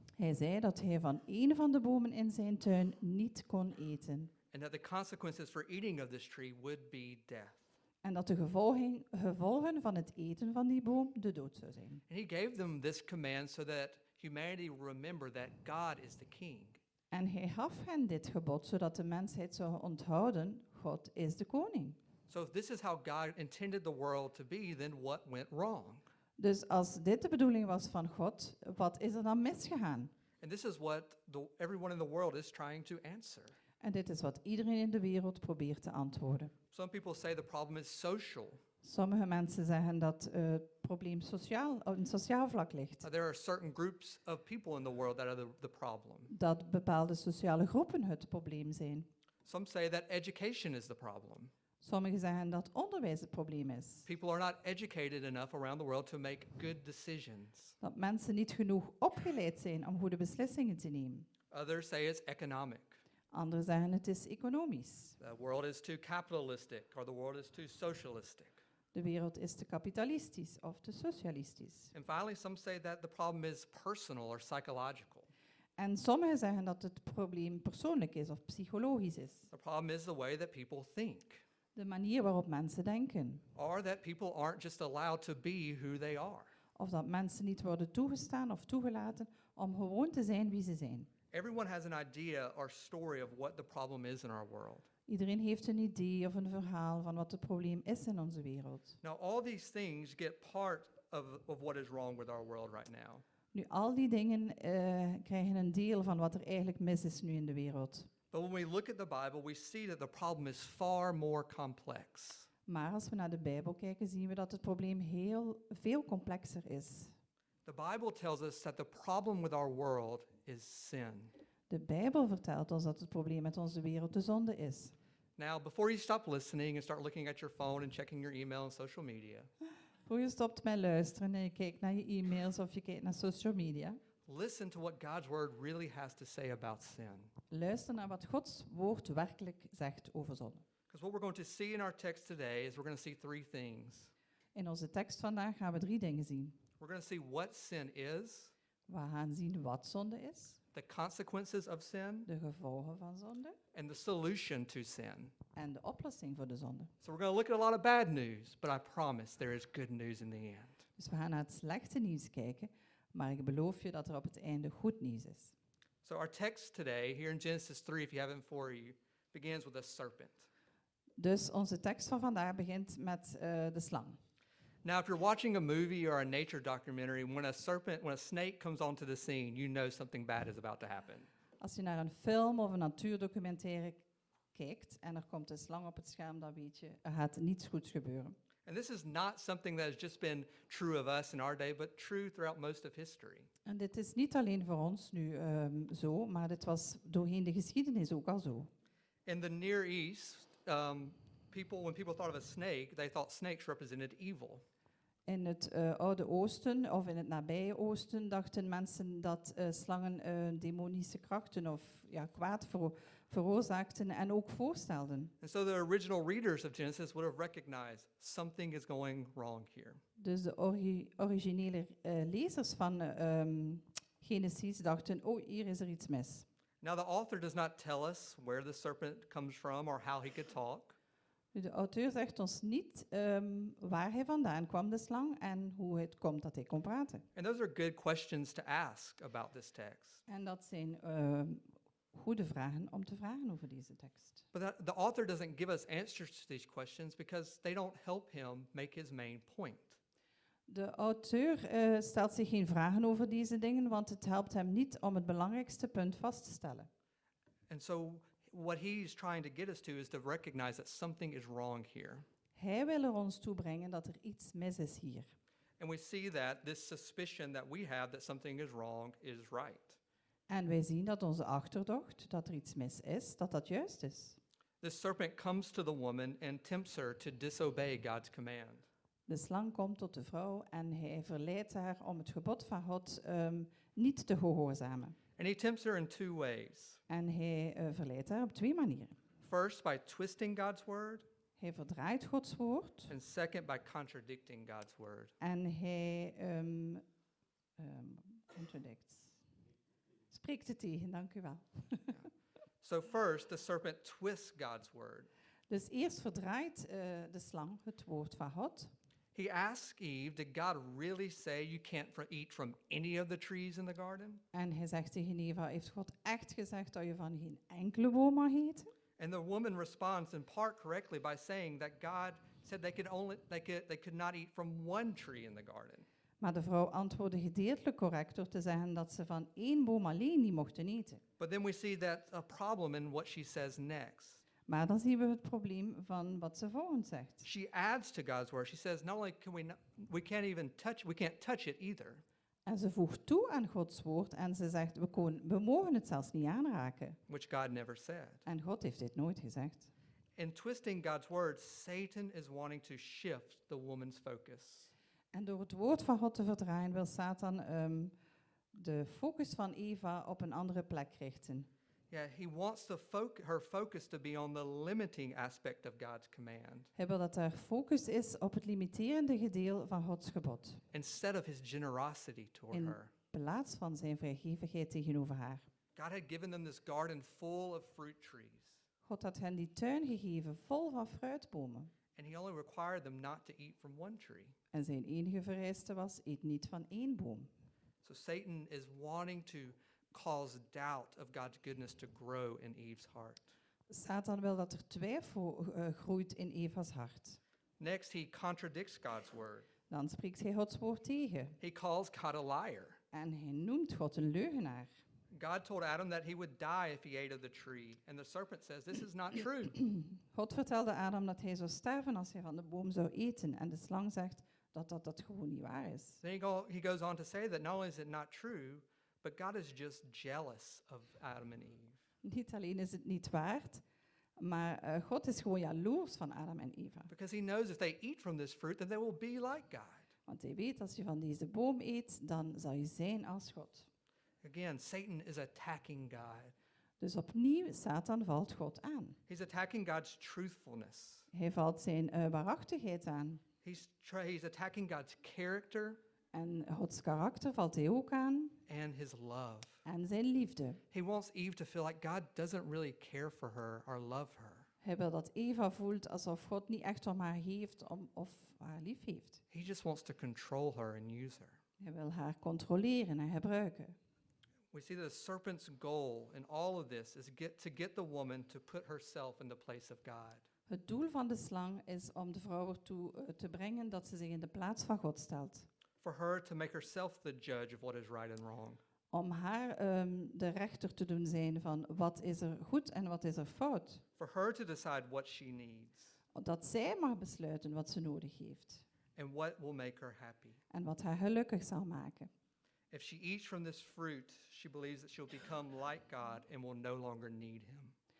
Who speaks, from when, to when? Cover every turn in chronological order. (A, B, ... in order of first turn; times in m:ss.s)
0:00.2-0:04.3 A
0:04.5-0:07.6 B
0:08.0-0:12.0 A
0:12.1-0:16.8 B
0:17.1-0:22.0 A
0:22.3-0:26.0 B
0:26.4-0:30.1 A
0:30.4-0:33.6 B
0:33.8-0:36.5 A
0:36.7-0:38.6 B
0:38.8-0:43.1 A
0:43.0-0:46.3 B
0:46.3-0:49.1 A
0:49.4-0:51.5 B
0:51.8-0:54.1 A
0:54.0-0:57.8 B
0:57.8-1:01.3 A
1:01.5-1:03.0 B
1:03.3-1:05.2 A
1:05.2-1:08.6 B
1:08.9-1:11.9 A
1:11.9-1:15.3 B
1:15.8-1:19.5 A
1:19.5-1:21.4 B
1:21.8-1:23.4 A
1:23.5-1:26.5 B
1:26.8-1:31.1 A
1:31.3-1:34.9 B
1:35.1-1:39.0 A
1:39.0-1:43.2 B
1:43.5-1:48.1 A
1:48.3-1:52.5 B
1:52.7-1:57.1 A
1:57.6-2:01.3 B
2:01.7-2:04.9 A
2:05.4-2:09.5 B
2:10.0-2:14.0 A
2:14.2-2:17.3 B
2:17.5-2:20.6 A
2:20.9-2:24.1 B
2:24.5-2:26.6 A
2:26.8-2:28.5 B
2:28.9-2:30.6 A
2:30.7-2:32.3 B
2:32.3-2:33.6 A
2:33.7-2:35.3 B
2:35.5-2:36.9 A
2:37.0-2:40.8 B
2:41.0-2:45.5 A
2:46.0-2:50.5 B
2:51.2-2:54.2 A
2:54.8-3:01.3 B
3:01.6-3:08.4 A
3:08.6-3:13.5 B
3:13.6-3:18.7 A
3:19.2-3:24.6 B
3:25.3-3:35.3 A
3:35.4-3:40.0 B
3:40.2-3:46.5 A
3:46.8-3:51.0 B
3:51.5-3:57.2 A
3:57.4-4:00.2 B
4:00.3-4:04.5 A
4:04.5-4:10.0 B
4:10.7-4:16.9 A
4:17.7-4:22.2 B
4:22.5-4:25.3 A
4:25.8-4:30.0 B
4:30.5-4:34.4 A
4:34.8-4:38.9 B
4:39.3-4:45.2 A
4:45.4-4:47.0 B
4:47.1-4:49.2 A
4:49.4-4:51.3 B
4:51.6-4:53.1 A
4:53.1-4:55.3 B
4:55.4-4:57.0 A
4:57.8-4:59.4 A
5:00.3-5:02.2 A
5:02.8-5:05.3 B
5:05.7-5:08.9 A
5:09.4-5:14.4 B
5:14.5-5:18.9 A
5:19.2-5:26.0 B
5:26.4-5:31.2 A
5:31.4-5:34.4 B
5:34.7-5:37.5 A
5:37.4-5:42.2 B
5:42.6-5:47.2 A
5:47.3-5:48.4 B
5:48.5-5:49.9 A
5:50.4-5:54.9 B
5:55.3-5:58.1 A
5:58.7-6:01.7 A
6:02.1-6:06.9 B
6:06.9-6:10.8 A
6:10.9-6:13.1 B
6:12.7-6:15.6 A
6:16.0-6:18.8 B
6:19.0-6:21.9 A
6:22.2-6:24.5 B
6:24.7-6:27.5 A
6:28.0-6:33.5 B
6:33.9-6:37.4 A
6:37.8-6:39.7 B
6:39.9-6:41.6 A
6:41.6-6:43.0 B
6:43.1-6:44.9 A
6:45.3-6:49.8 B
6:49.8-6:56.2 A
6:56.2-7:02.0 B
7:02.2-7:03.8 A
7:04.4-7:07.1 A
7:07.1-7:10.1 B
7:10.3-7:13.9 A
7:14.4-7:16.5 B
7:17.0-7:19.2 A
7:19.3-7:21.3 B
7:21.3-7:23.4 A
7:23.6-7:26.0 B
7:26.3-7:28.6 A
7:28.7-7:29.8 B
7:29.8-7:30.8 A
7:30.9-7:34.7 B
7:34.8-7:39.4 A
7:39.5-7:41.6 B
7:41.8-7:44.0 A
7:44.7-7:50.4 B
7:50.7-7:55.7 A
7:56.0-7:58.8 B
7:59.1-8:04.0 A
8:04.2-8:06.1 B
8:06.3-8:08.8 A
8:09.2-8:10.6 B
8:10.7-8:12.3 A
8:12.9-8:17.9 B